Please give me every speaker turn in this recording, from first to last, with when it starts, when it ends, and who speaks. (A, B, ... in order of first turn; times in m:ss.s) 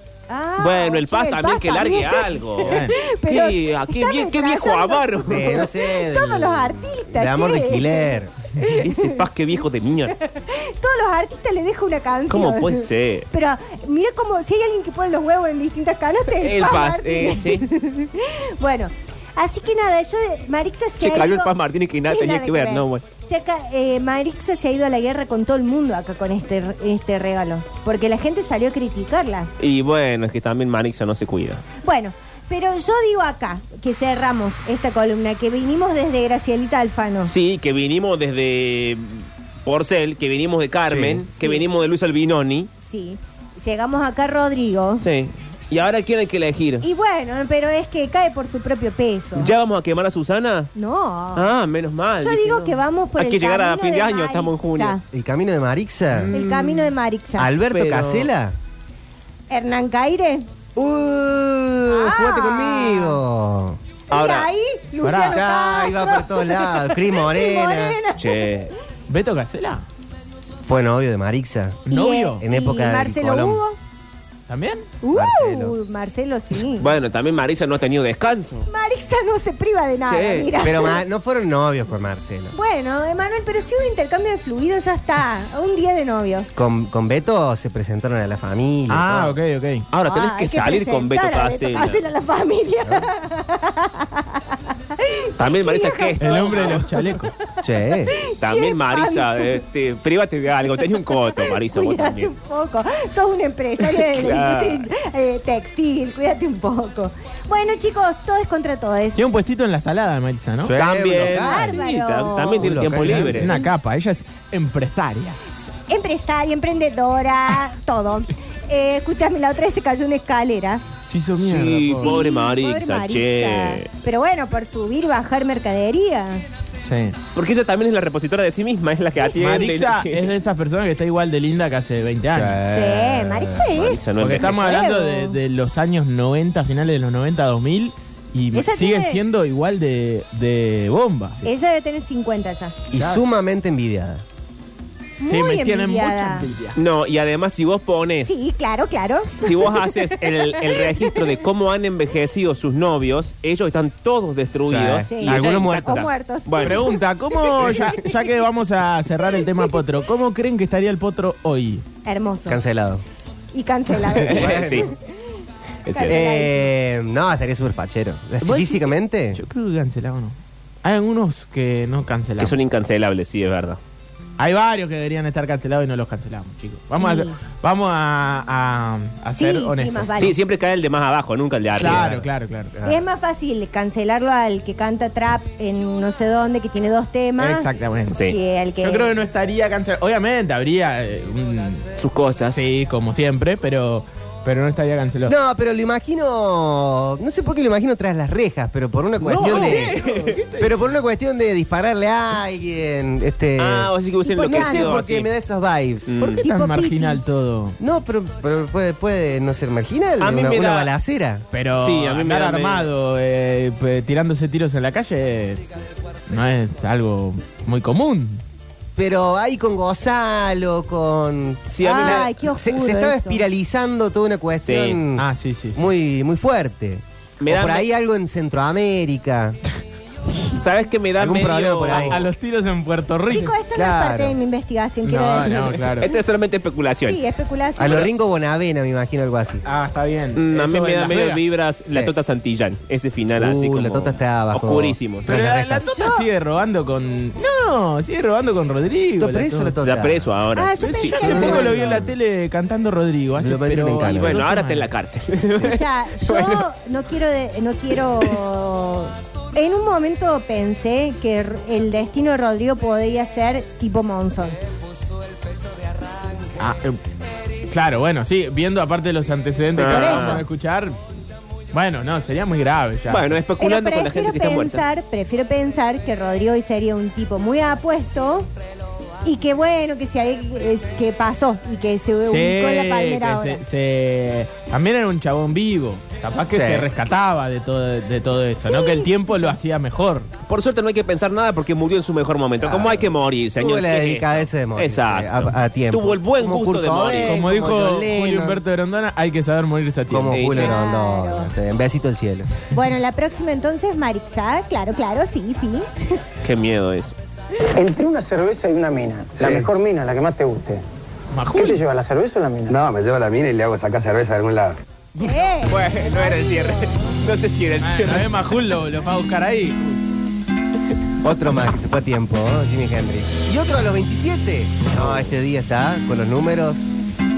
0:00.3-0:09.2 A
0:00.6-0:05.5 B
0:02.6-0:03.0 C
0:05.3-0:08.3 D
0:08.8-0:10.2 B
0:10.1-0:21.5 A
0:12.3-0:13.3 B
0:16.4-0:17.6 B
0:21.0-0:23.0 B
0:22.1-0:29.5 A
0:29.6-0:31.6 B
0:31.8-0:37.3 A
0:37.2-0:42.7 B
0:40.9-0:41.2 D
0:41.3-0:41.7 A
0:42.8-0:45.0 A
0:45.0-0:46.9 B
0:46.8-0:49.5 A
0:49.4-0:50.7 B
0:50.8-0:51.5 A
0:51.4-0:55.0 B
0:52.2-0:55.0 A
0:55.1-0:56.3 D
0:56.1-0:56.9 B
0:56.3-0:57.5 A
0:57.4-0:58.6 D
0:57.7-0:58.3 B
0:59.5-1:00.5 A
1:00.8-1:03.8 D
1:01.9-1:03.2 A
1:04.1-1:04.5 B
1:04.1-1:08.5 A
1:05.0-1:05.4 C
1:05.3-1:08.0 D
1:08.2-1:08.7 B
1:09.1-1:09.8 C
1:10.6-1:11.9 D
1:11.9-1:12.4 C
1:11.9-1:13.8 A
1:12.4-1:13.6 D
1:14.5-1:14.9 C
1:15.0-1:16.9 A
1:15.1-1:15.8 D
1:16.8-1:18.7 B
1:18.7-1:21.0 A
1:20.1-1:20.7 B
1:20.6-1:22.5 D
1:22.5-1:26.5 A
1:26.6-1:29.4 D
1:28.9-1:29.9 C
1:29.9-1:32.0 B
1:30.1-1:34.4 A
1:35.0-1:37.2 A
1:35.4-1:36.8 B
1:36.2-1:37.4 C
1:37.6-1:38.1 D
1:38.1-1:39.6 A
1:38.4-1:42.3 B
1:41.1-1:49.2 A
1:43.9-1:44.9 B
1:49.2-1:50.8 C
1:50.6-1:51.7 D
1:50.8-1:53.5 B
1:51.4-1:52.9 A
1:52.6-1:53.4 D
1:52.8-1:55.4 C
1:55.9-2:00.8 A
2:01.1-2:02.1 C
2:01.5-2:03.9 B
2:02.0-2:06.4 A
2:06.8-2:07.2 C
2:07.3-2:10.3 B
2:09.2-2:09.6 A
2:09.3-2:12.6 C
2:12.3-2:13.7 D
2:12.7-2:15.4 A
2:13.6-2:14.8 B
2:14.2-2:21.4 C
2:18.5-2:19.2 A
2:21.4-2:22.8 A
2:22.9-2:24.2 D
2:25.2-2:26.5 A
2:25.3-2:26.8 C
2:26.8-2:28.4 B
2:28.3-2:31.2 A
2:29.4-2:36.8 B
2:34.7-2:36.1 D
2:35.1-2:38.3 A
2:36.6-2:41.8 C
2:39.3-2:39.6 A
2:42.0-2:42.6 A
2:42.5-2:43.0 D
2:43.5-2:45.0 A
2:44.1-2:44.9 D
2:44.2-2:44.9 B
2:45.9-2:46.2 B
2:45.9-2:46.7 A
2:46.0-2:49.4 D
2:48.4-2:52.6 C
2:52.4-2:53.8 B
2:54.4-3:00.2 C
2:57.0-2:57.4 A
2:59.4-3:00.4 A
3:00.2-3:02.1 B
3:01.8-3:02.8 C
3:01.8-3:03.0 D
3:02.9-3:07.7 A
3:07.4-3:08.2 C
3:08.1-3:08.4 B
3:08.2-3:09.2 A
3:08.8-3:11.9 C
3:12.0-3:12.6 B
3:12.5-3:15.3 C
3:15.3-3:20.0 D
3:19.3-3:20.9 C
3:19.3-3:20.4 B
3:20.6-3:23.9 D
3:23.6-3:25.3 B
3:24.3-3:25.0 A
3:24.5-3:26.2 D
3:26.1-3:26.4 B
3:26.2-3:27.2 A
3:26.4-3:27.8 C
3:27.8-3:31.4 D
3:30.2-3:30.9 B
3:31.5-3:35.7 C
3:31.8-3:32.9 B
3:36.3-3:38.4 C
3:39.0-3:49.6 D
3:41.7-3:42.3 B
3:41.8-3:43.4 A
3:44.6-3:45.0 B
3:45.2-3:45.8 C
3:47.4-3:47.9 B
3:50.5-3:52.2 B
3:51.2-3:52.3 D
3:51.9-3:53.6 C
3:53.3-3:56.2 A
3:53.8-3:54.4 D
3:55.0-3:56.1 C
3:56.0-3:57.2 B
3:57.0-3:58.1 A
3:57.8-3:59.6 D
3:59.6-4:01.4 C
4:00.4-4:05.4 B
4:03.4-4:05.9 D
4:05.3-4:09.8 C
4:05.8-4:06.3 A
4:09.2-4:10.3 D
4:09.8-4:11.7 B
4:10.6-4:12.0 A
4:11.1-4:14.9 C
4:11.2-4:12.2 D
4:13.4-4:14.4 D
4:14.1-4:16.7 B
4:15.6-4:24.6 A
4:26.6-4:27.0 C
4:27.7-4:31.0 C
4:29.8-4:30.4 B
4:29.8-4:30.4 A
4:31.7-4:33.4 C
4:33.1-4:34.8 B
4:33.6-4:38.5 A
4:39.2-4:43.6 A
4:42.2-4:50.3 C
4:46.5-4:46.9 D
4:48.6-4:49.6 A
4:50.4-4:57.4 B
4:52.6-4:58.6 D
4:57.2-5:00.7 C
5:00.1-5:02.5 D
5:00.3-5:00.7 B
5:00.6-5:01.5 A
5:02.7-5:06.1 A
5:06.4-5:07.2 B
5:07.8-5:10.8 E
5:09.4-5:09.7 F
5:11.3-5:11.8 C
5:11.5-5:12.8 E
5:12.7-5:14.8 F
5:15.2-5:17.0 A
5:15.6-5:18.5 B
5:17.8-5:20.0 C
5:21.2-5:27.0 D